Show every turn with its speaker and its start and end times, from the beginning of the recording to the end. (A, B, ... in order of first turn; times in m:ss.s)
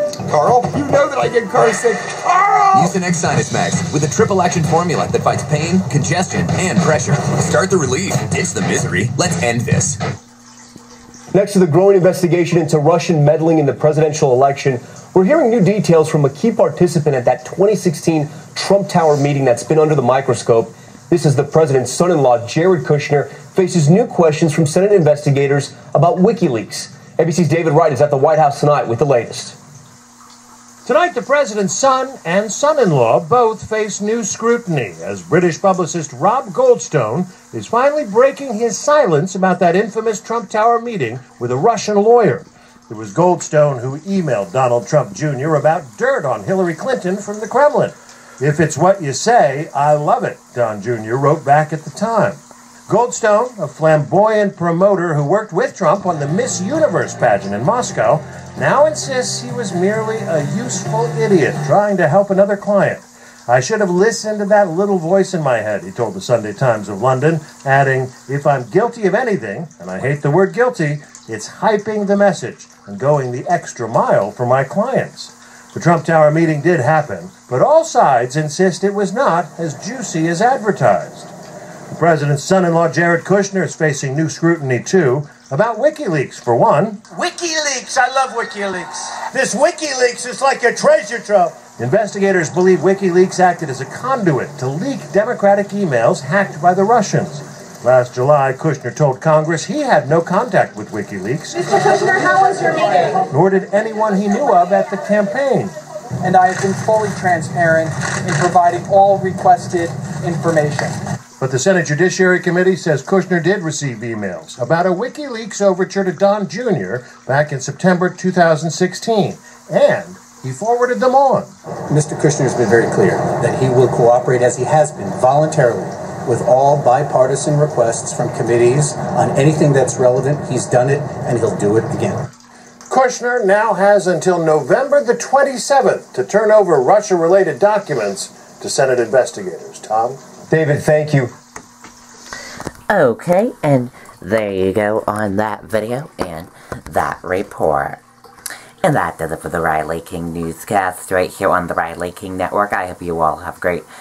0:00.3-0:02.9 A
0:02.7-0:10.0 B
0:11.3-0:29.6 C
0:30.8-1:21.3 D
1:21.9-1:45.7 D
1:42.8-1:43.1 E
1:46.2-1:50.9 E
1:51.4-2:01.5 D
2:01.9-2:12.2 F
2:12.9-2:20.2 D
2:20.5-2:21.3 C
2:22.9-2:28.0 G
2:28.8-2:33.9 G